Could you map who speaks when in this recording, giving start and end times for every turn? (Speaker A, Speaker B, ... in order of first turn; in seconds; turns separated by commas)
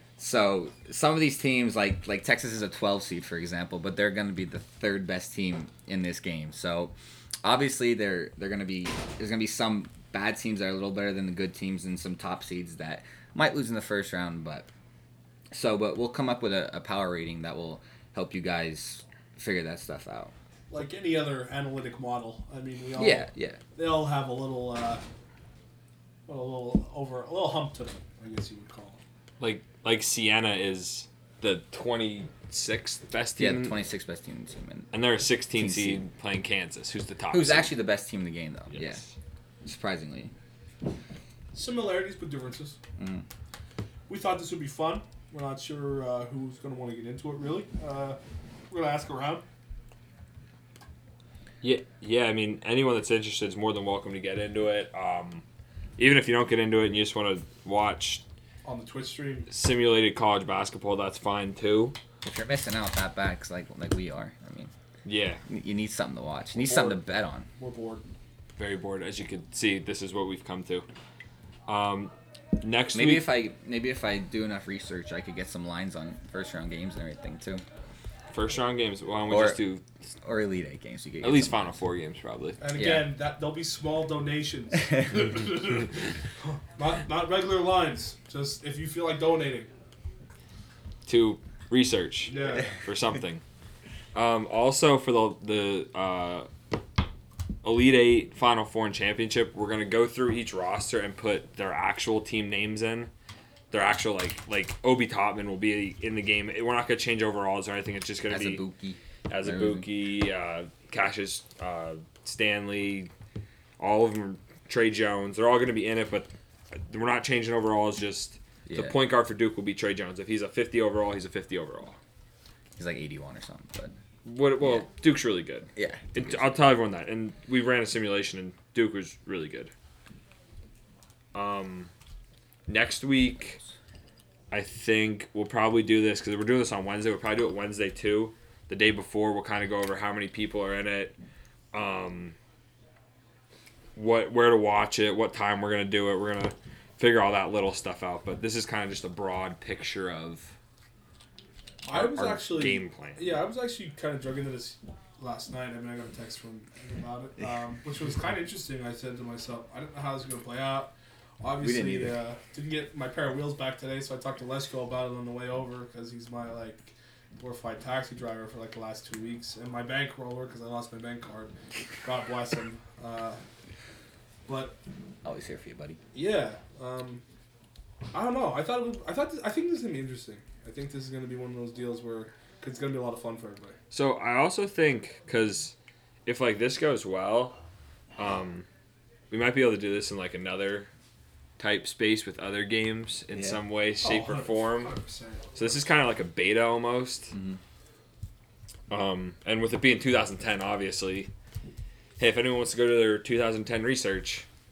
Speaker A: 0.2-14.7, Speaker A: 15.5-20.3, Speaker B: 20.7-25.0, Speaker A: 22.9-23.6, Speaker B: 26.3-29.0, Speaker C: 29.4-33.8, Speaker A: 33.4-34.9, Speaker C: 34.9-37.7, Speaker A: 35.5-36.0, Speaker A: 37.3-39.0, Speaker C: 38.7-39.1, Speaker A: 39.6-40.3, Speaker B: 41.5-42.8, Speaker A: 43.0-43.2, Speaker B: 44.1-48.2, Speaker B: 48.7-49.4, Speaker C: 51.6-55.4, Speaker C: 56.0-58.2, Speaker B: 58.6-59.5, Speaker C: 59.5-62.0, Speaker A: 62.2-64.7, Speaker C: 65.0-65.4, Speaker A: 65.5-67.5, Speaker B: 66.5-67.0, Speaker B: 67.5-68.0, Speaker C: 68.6-70.8, Speaker C: 71.7-73.3, Speaker A: 72.9-77.6, Speaker C: 78.3-79.8, Speaker A: 79.3-79.6, Speaker A: 80.2-81.8, Speaker C: 81.2-82.6, Speaker B: 82.6-89.7, Speaker A: 82.8-83.1, Speaker C: 91.0-93.4, Speaker B: 92.3-92.7, Speaker C: 94.1-96.5, Speaker C: 97.6-103.1, Speaker C: 103.7-108.6, Speaker A: 108.3-109.9, Speaker C: 109.3-113.1, Speaker C: 113.8-122.0, Speaker A: 118.7-118.9, Speaker A: 122.8-123.9, Speaker C: 124.2-129.7, Speaker A: 124.6-124.8, Speaker A: 125.7-126.4, Speaker C: 131.3-131.9, Speaker C: 132.7-133.6, Speaker C: 134.5-141.1, Speaker C: 141.7-142.3, Speaker C: 143.9-150.5, Speaker B: 151.8-173.4, Speaker C: 151.9-153.4, Speaker A: 161.6-162.2, Speaker B: 174.5-174.8, Speaker A: 175.2-176.0, Speaker B: 176.1-177.2, Speaker B: 178.1-183.8, Speaker C: 183.9-185.7, Speaker C: 186.2-187.6, Speaker C: 188.2-188.7, Speaker C: 189.3-190.9, Speaker C: 191.6-194.9, Speaker A: 193.3-193.6, Speaker B: 194.0-195.9, Speaker C: 195.6-197.3, Speaker A: 197.3-197.6, Speaker C: 198.9-201.3, Speaker C: 202.2-204.4